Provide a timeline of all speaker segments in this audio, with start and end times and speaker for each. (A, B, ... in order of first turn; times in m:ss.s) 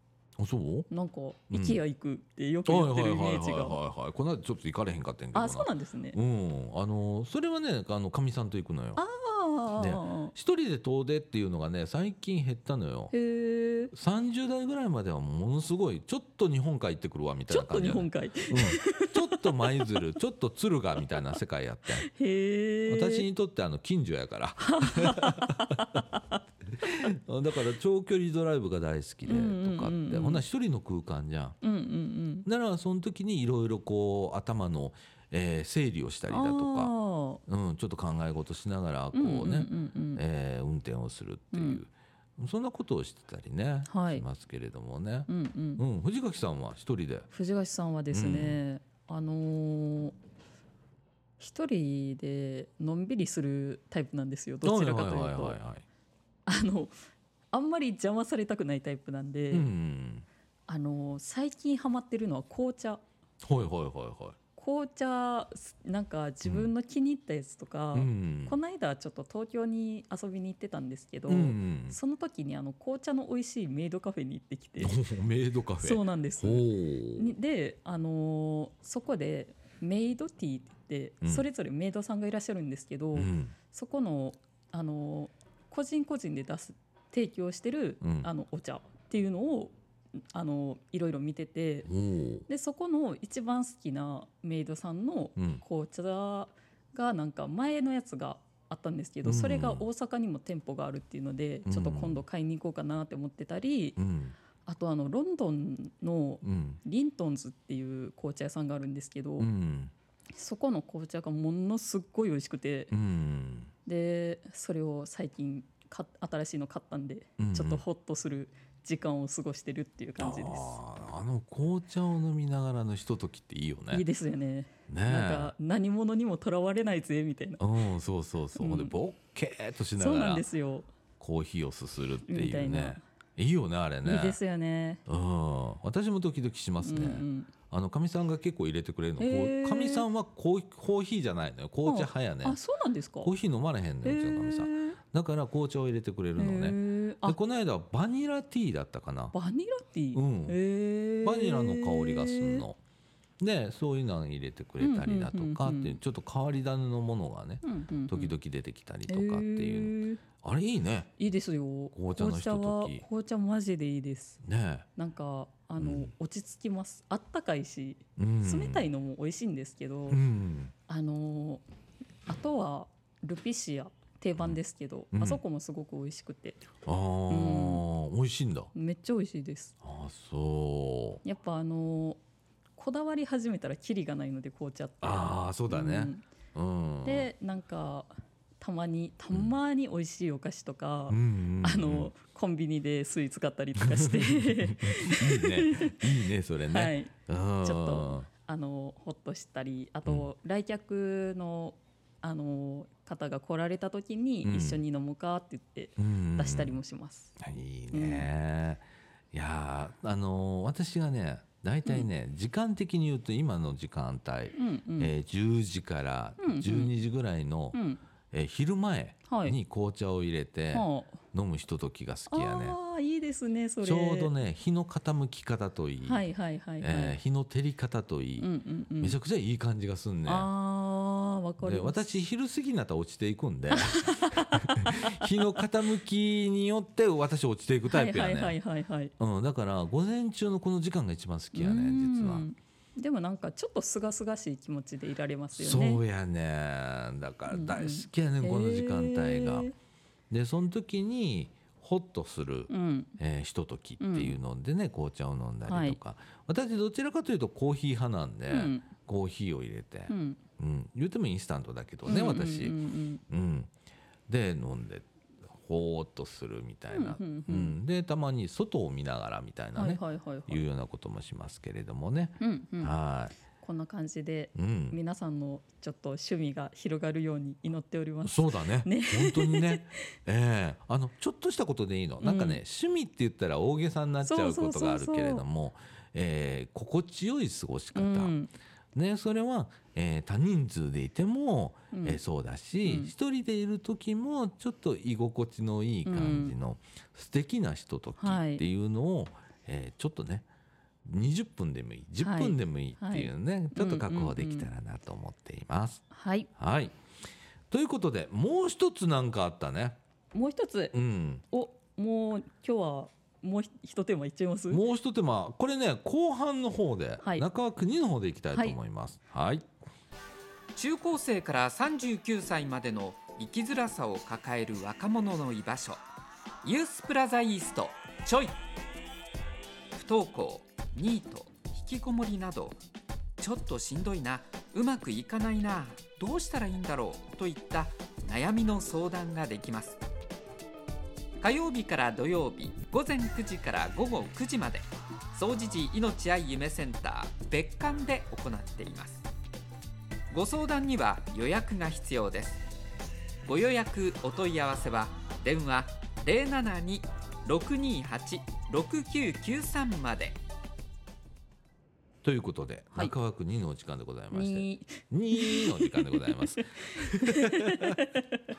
0:00.4-0:00.9 A
0:00.9-0:03.8 B
0:01.5-0:01.8 A
0:02.6-0:09.0 A
0:05.3-0:06.2 B
0:09.0-0:10.3 B
0:09.8-0:13.1 A
0:13.1-0:13.9 B
0:13.9-0:22.1 A
0:17.5-0:19.8 B
0:22.0-0:23.3 B
0:22.9-0:25.8 A
0:24.6-0:26.4 B
0:26.8-0:31.6 A
0:29.3-0:30.4 B
0:31.6-0:32.5 B
0:32.5-0:36.9 A
0:36.3-0:37.4 B
0:37.5-0:47.3 A
0:39.1-0:40.2 B
0:41.5-0:41.8 B
0:43.9-0:44.2 B
0:45.3-0:45.8 B
0:47.3-0:50.2 B
0:48.1-0:48.6 A
0:51.4-0:55.6 B
0:54.6-0:55.8 A
0:56.5-0:57.0 B
0:57.5-0:59.7 B
0:59.5-1:00.3 A
1:00.7-1:03.0 B
1:03.4-1:04.4 A
1:04.6-1:15.0 B
1:06.4-1:06.7 A
1:07.9-1:08.6 A
1:11.3-1:12.0 A
1:14.8-1:17.3 A
1:15.8-1:29.7 B
1:23.2-1:23.5 A
1:28.0-1:28.3 A
1:30.3-1:31.9 B
1:31.9-1:32.5 A
1:32.5-1:44.0 B
1:35.4-1:35.6 A
1:39.2-1:39.9 A
1:41.7-1:42.2 A
1:44.0-1:44.4 A
1:44.7-1:49.5 B
1:46.4-1:46.8 A
1:49.4-1:49.9 A
1:50.3-1:52.9 B
1:52.9-1:53.7 A
1:53.9-2:00.8 B
1:57.4-1:57.8 A
2:00.2-2:04.0 A
2:03.9-2:07.6 B
2:04.9-2:05.5 A
2:07.6-2:10.4 A
2:08.6-2:09.0 B
2:10.0-2:10.9 B
2:11.2-2:14.4 A
2:12.3-2:13.0 B
2:14.0-2:15.0 B
2:15.1-2:22.6 A
2:16.8-2:17.5 B
2:19.2-2:20.1 B
2:21.9-2:23.3 B
2:23.2-2:29.4 A
2:24.0-2:25.0 B
2:26.4-2:27.4 B
2:29.3-2:32.7 B
2:30.1-2:30.6 A
2:31.2-2:32.8 A
2:33.4-2:41.1 A
2:34.8-2:36.0 B
2:37.6-2:38.4 B
2:39.1-2:40.2 B
2:41.2-2:44.4 B
2:41.9-2:43.0 A
2:44.4-2:44.9 A
2:45.0-2:50.2 B
2:45.8-2:46.1 A
2:48.2-2:48.9 A
2:50.1-2:50.7 A
2:50.9-2:51.6 B
2:52.3-2:56.6 B
2:55.1-2:55.4 A
2:56.8-2:58.7 A
2:57.3-2:57.8 B
2:58.7-2:59.8 B
2:59.8-3:01.2 A
3:01.2-3:02.2 B
3:02.8-3:06.2 B
3:05.0-3:07.3 A
3:07.0-3:16.1 B
3:11.1-3:12.1 A
3:13.8-3:18.3 A
3:16.7-3:27.4 B
3:24.4-3:24.8 A
3:26.0-3:26.8 A
3:27.4-3:37.8 A
3:27.9-3:28.3 B
3:34.6-3:35.1 B
3:36.4-3:36.9 B
3:37.7-3:38.0 B
3:38.3-3:42.8 A
3:39.3-3:39.6 B
3:40.7-3:41.2 B
3:42.3-3:44.3 B
3:43.8-3:46.2 A
3:46.0-3:47.2 B
3:46.8-3:50.5 A
3:48.4-3:49.2 B
3:50.3-3:52.1 B
3:51.6-3:58.6 A
3:53.7-3:55.2 B
3:57.9-3:59.1 B
3:59.2-4:02.5 A
4:01.5-4:06.0 B
4:05.6-4:09.7 A
4:07.5-4:09.8 B
4:10.3-4:22.8 A
4:12.7-4:13.2 B
4:14.0-4:14.4 B
4:15.7-4:16.0 B
4:18.5-4:18.9 B
4:20.1-4:20.4 B
4:22.1-4:23.2 B
4:23.3-4:23.7 A
4:24.3-4:33.4 A
4:26.9-4:27.8 B
4:29.8-4:30.6 B
4:32.4-4:32.9 B
4:33.6-4:40.0 B
4:34.6-4:35.0 A
4:38.2-4:48.3 A
4:42.2-4:42.6 B
4:44.2-4:45.4 B
4:48.0-4:48.5 B
4:49.0-5:00.5 A
4:51.9-4:52.2 B
4:52.8-4:53.1 B
4:56.1-4:56.5 B
4:58.2-4:58.6 B
5:01.0-5:06.0 A
5:02.2-5:04.7 B
5:06.1-5:06.5 B
5:06.6-5:07.0 A
5:07.7-5:10.0 A
5:10.3-5:11.0 B
5:10.9-5:11.4 A
5:11.5-5:14.8 B
5:14.7-5:19.7 A
5:20.8-5:26.0 C
5:26.6-5:28.6 C
5:29.9-5:32.8 C
5:33.4-5:40.0 C
5:41.4-5:49.2 C
5:50.3-5:52.6 C
5:53.4-6:00.4 C
6:02.2-6:08.0 A
6:04.3-6:08.4 B